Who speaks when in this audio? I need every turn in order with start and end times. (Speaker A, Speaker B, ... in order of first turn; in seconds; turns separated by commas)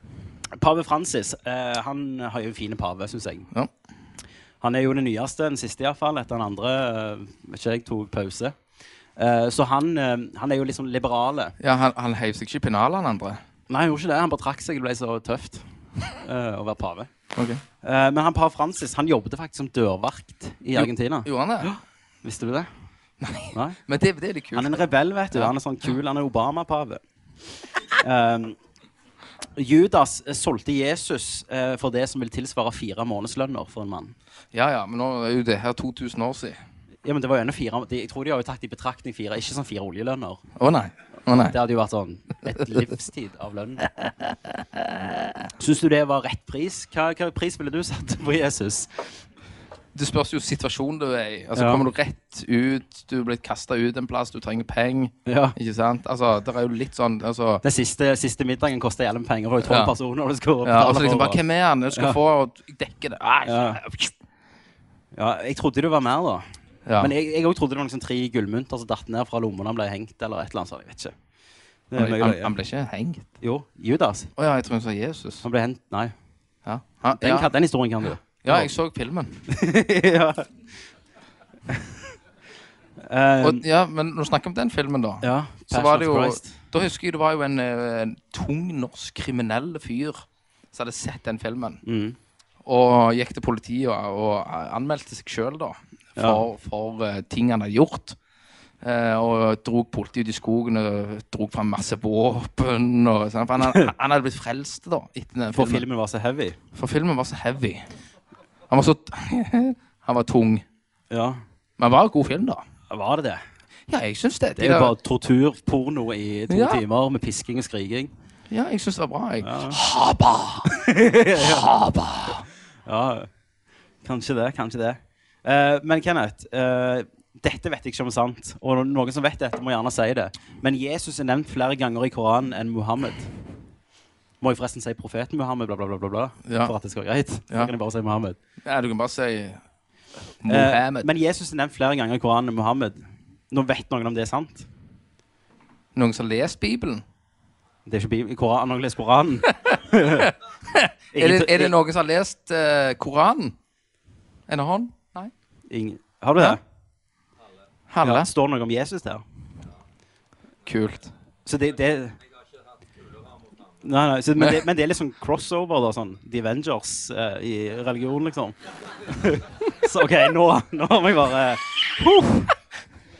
Speaker A: 0.5-3.5, Speaker A: 4.6-8.6, Speaker A: 9.2-11.6, Speaker B: 11.6-13.4, Speaker A: 13.7-17.1, Speaker B: 17.3-17.6, Speaker A: 17.8-22.7, Speaker B: 20.7-21.7, Speaker B: 23.2-25.5, Speaker A: 23.5-23.8, Speaker A: 24.5-27.0, Speaker A: 28.0-28.6, Speaker A: 29.6-34.1, Speaker B: 34.5-36.6, Speaker A: 37.0-40.4, Speaker B: 40.5-41.5, Speaker A: 41.3-43.9, Speaker B: 44.0-45.3, Speaker A: 45.6-49.1, Speaker B: 49.9-57.6, Speaker A: 51.5-51.8, Speaker A: 55.2-55.5, Speaker A: 57.6-61.4, Speaker B: 59.6-59.9, Speaker B: 60.6-64.1, Speaker A: 61.9-62.2, Speaker A: 63.4-63.8, Speaker A: 65.1-66.4, Speaker B: 66.8-67.1, Speaker A: 67.0-71.1, Speaker A: 71.9-72.5, Speaker B: 71.9-73.3, Speaker A: 73.4-74.3, Speaker B: 74.3-75.4, Speaker A: 75.4-76.1, Speaker B: 76.6-77.5, Speaker A: 77.2-78.7, Speaker B: 78.4-79.4, Speaker A: 79.5-80.5, Speaker A: 81.7-82.0, Speaker A: 83.0-83.6, Speaker B: 83.4-91.8, Speaker A: 85.2-86.6, Speaker A: 91.8-92.2, Speaker B: 92.6-98.2, Speaker A: 96.2-96.4, Speaker B: 98.8-105.8, Speaker A: 103.6-103.9, Speaker A: 105.5-106.6, Speaker B: 106.7-107.9, Speaker B: 108.7-110.6, Speaker A: 111.1-111.4, Speaker B: 111.8-112.6, Speaker A: 112.9-113.4, Speaker B: 113.9-114.9, Speaker A: 114.6-118.1, Speaker B: 116.5-116.8, Speaker B: 118.5-120.7, Speaker A: 119.4-119.8, Speaker A: 120.6-121.7, Speaker B: 121.3-122.5, Speaker A: 122.8-123.3, Speaker A: 124.0-133.3, Speaker A: 134.4-138.4, Speaker B: 136.4-136.7, Speaker B: 138.6-139.6, Speaker B: 140.4-141.1, Speaker A: 140.5-144.7, Speaker B: 145.9-147.0, Speaker A: 147.8-150.3, Speaker B: 150.2-153.5, Speaker A: 151.1-151.7, Speaker B: 154.5-155.3, Speaker A: 155.7-156.6, Speaker B: 157.9-158.3, Speaker A: 158.0-159.2, Speaker B: 160.6-161.1, Speaker A: 161.4-162.2, Speaker A: 163.8-172.3, Speaker B: 172.2-172.5